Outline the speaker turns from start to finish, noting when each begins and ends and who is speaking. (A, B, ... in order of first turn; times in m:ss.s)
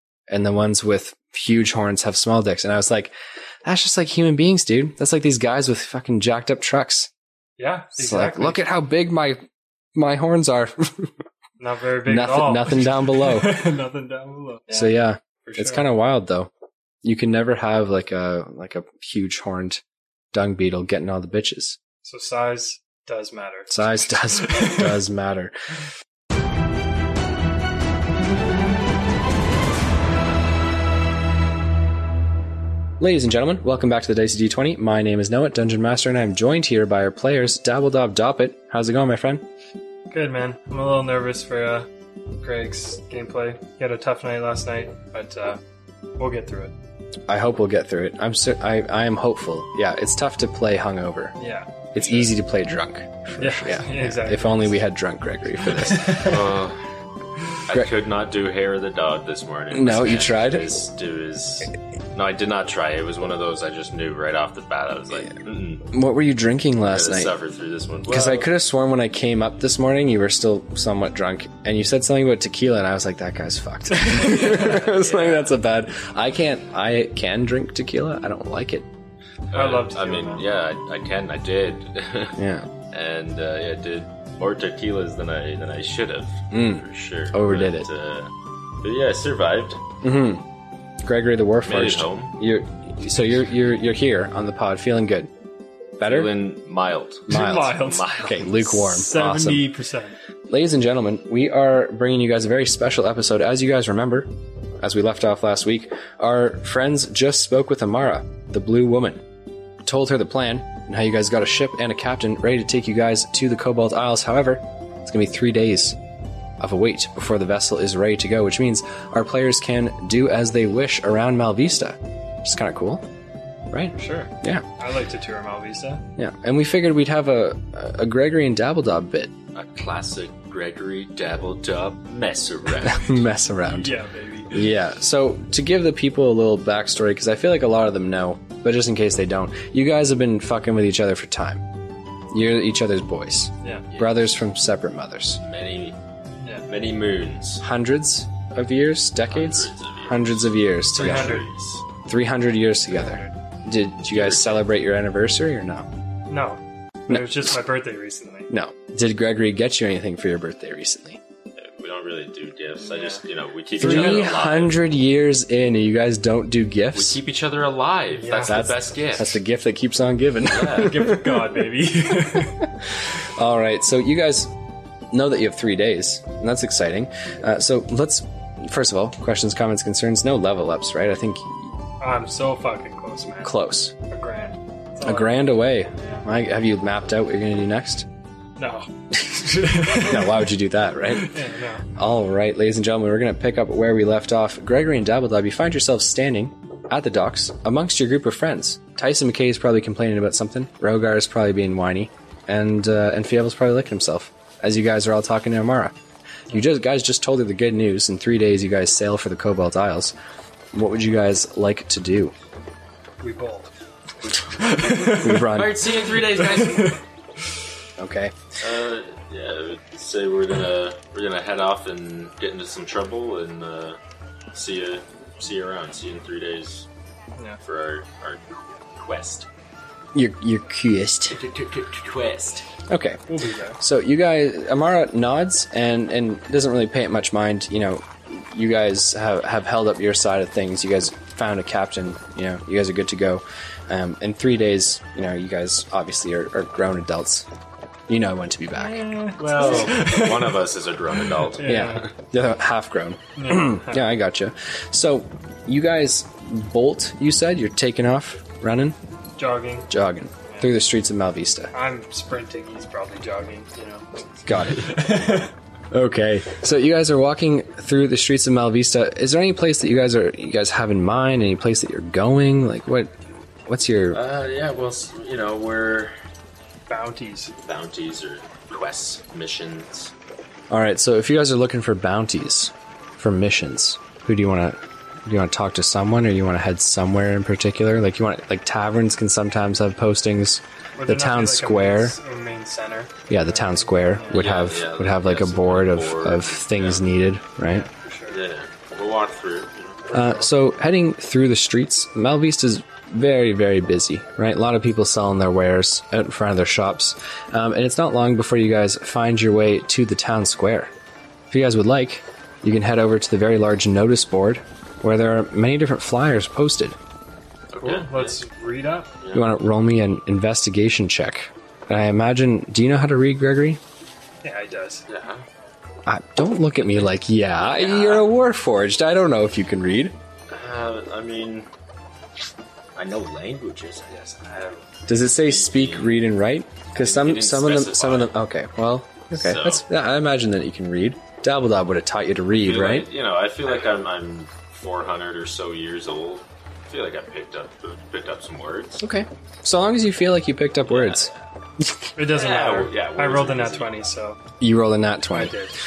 0:00.3-0:03.1 A
0:03.6-0:07.1 A
0:07.6-0:08.6 B
0:08.0-0:11.1 A
0:11.6-0:15.9 B
0:12.1-0:13.6 A
0:14.7-0:16.5 A
0:17.0-0:19.8 A
0:20.3-0:21.8 A
0:22.0-0:25.0 B
0:23.7-0:25.6 A
0:33.0-0:39.4 A
0:40.1-0:41.9 B
0:42.4-0:45.6 B
0:46.2-0:46.7 B
0:47.3-0:51.4 A
0:51.4-0:51.8 B
0:51.9-0:56.4 A
0:52.0-0:52.3 C
0:53.4-0:54.8 B
0:55.8-0:56.4 B
0:56.0-0:56.8 C
0:57.7-1:05.9 C
0:59.7-1:00.7 A
1:05.9-1:07.3 A
1:06.8-1:08.5 C
1:08.1-1:18.9 A
1:14.2-1:15.6 C
1:19.5-1:22.4 C
1:19.5-1:20.5 B
1:22.4-1:22.7 A
1:22.9-1:29.8 C
1:26.5-1:27.9 A
1:30.0-1:30.4 A
1:31.1-1:35.3 A
1:31.6-1:32.4 C
1:36.0-1:36.3 A
1:36.1-1:38.5 C
1:37.3-1:39.7 A
1:37.3-1:40.1 B
1:40.5-1:44.3 A
1:44.8-1:49.2 A
1:49.9-1:56.0 A
1:56.6-2:03.0 A
2:03.7-2:04.7 A
2:04.0-2:06.0 B
2:06.2-2:09.3 A
2:09.5-2:13.2 C
2:12.8-2:14.0 A
2:13.6-2:14.6 B
2:14.5-2:21.6 A
2:22.3-2:25.4 A
2:23.9-2:24.3 C
2:25.4-2:26.0 C
2:26.4-2:26.7 B
2:26.7-2:27.6 C
2:27.6-2:31.4 A
2:29.3-2:31.8 C
2:31.0-2:31.5 B
2:32.0-2:35.9 A
2:32.9-2:33.3 B
2:34.0-2:34.7 C
2:36.3-2:38.5 B
2:37.1-2:37.4 A
2:38.5-2:41.2 A
2:41.6-2:44.8 C
2:42.9-2:43.2 B
2:43.8-2:47.2 A
2:43.8-2:44.2 B
2:46.9-2:49.4 C
2:48.2-2:48.7 B
2:48.4-2:51.6 A
2:50.5-2:51.0 C
2:50.7-2:52.6 B
2:53.2-2:54.5 A
2:55.1-3:01.6 A
3:02.0-3:03.5 B
3:03.4-3:03.9 A
3:04.1-3:06.2 B
3:05.0-3:08.1 A
3:08.6-3:10.5 B
3:09.6-3:11.4 A
3:11.2-3:11.9 B
3:12.0-3:26.0 A
3:26.5-3:30.1 A
3:30.7-3:32.3 A
3:33.2-3:33.7 B
3:34.5-3:35.5 B
3:35.0-3:35.8 A
3:35.1-3:37.0 C
3:36.0-3:37.0 B
3:38.0-3:38.4 A
3:38.6-3:44.0 C
3:44.5-3:46.9 C
3:47.6-3:48.4 C
3:49.0-3:49.5 C
3:50.2-3:51.4 A
3:51.3-3:52.7 C
3:52.9-3:53.2 A
3:53.3-3:53.8 B
3:53.8-4:07.5 A
4:08.1-4:09.2 A
4:08.8-4:10.6 B
4:09.4-4:12.1 C
4:11.3-4:12.1 B
4:11.6-4:19.0 A
4:13.4-4:14.1 B
4:19.4-4:19.9 B
4:19.9-4:21.7 A
4:21.7-4:25.5 B
4:24.5-4:25.1 A
4:25.9-4:33.1 A
4:33.7-4:34.2 A
4:34.1-4:36.1 C
4:36.9-4:37.5 B
4:37.6-4:40.1 C
4:40.7-4:52.2 A
4:51.0-4:54.4 B
4:53.3-4:57.9 A
4:54.3-4:57.1 C
4:57.7-4:58.4 B
4:58.3-5:00.0 C
5:00.1-5:00.5 B
5:00.1-5:10.9 A
5:11.5-5:17.0 A
5:17.7-5:18.4 C
5:17.8-5:19.2 B
5:19.2-5:19.5 C
5:19.3-5:23.8 A
5:24.4-5:25.0 B
5:25.1-5:25.5 C
5:26.1-5:30.2 A
5:26.8-5:28.3 C
5:30.5-5:31.7 C
5:33.0-5:36.2 C
5:35.1-5:43.1 A
5:37.0-5:38.4 C
5:39.4-5:39.8 C
5:42.6-5:49.0 C
5:49.0-5:51.3 A
5:50.8-5:51.4 C
5:52.2-5:54.4 B
5:52.2-5:54.0 C
5:54.6-5:55.5 A
5:55.3-5:55.7 B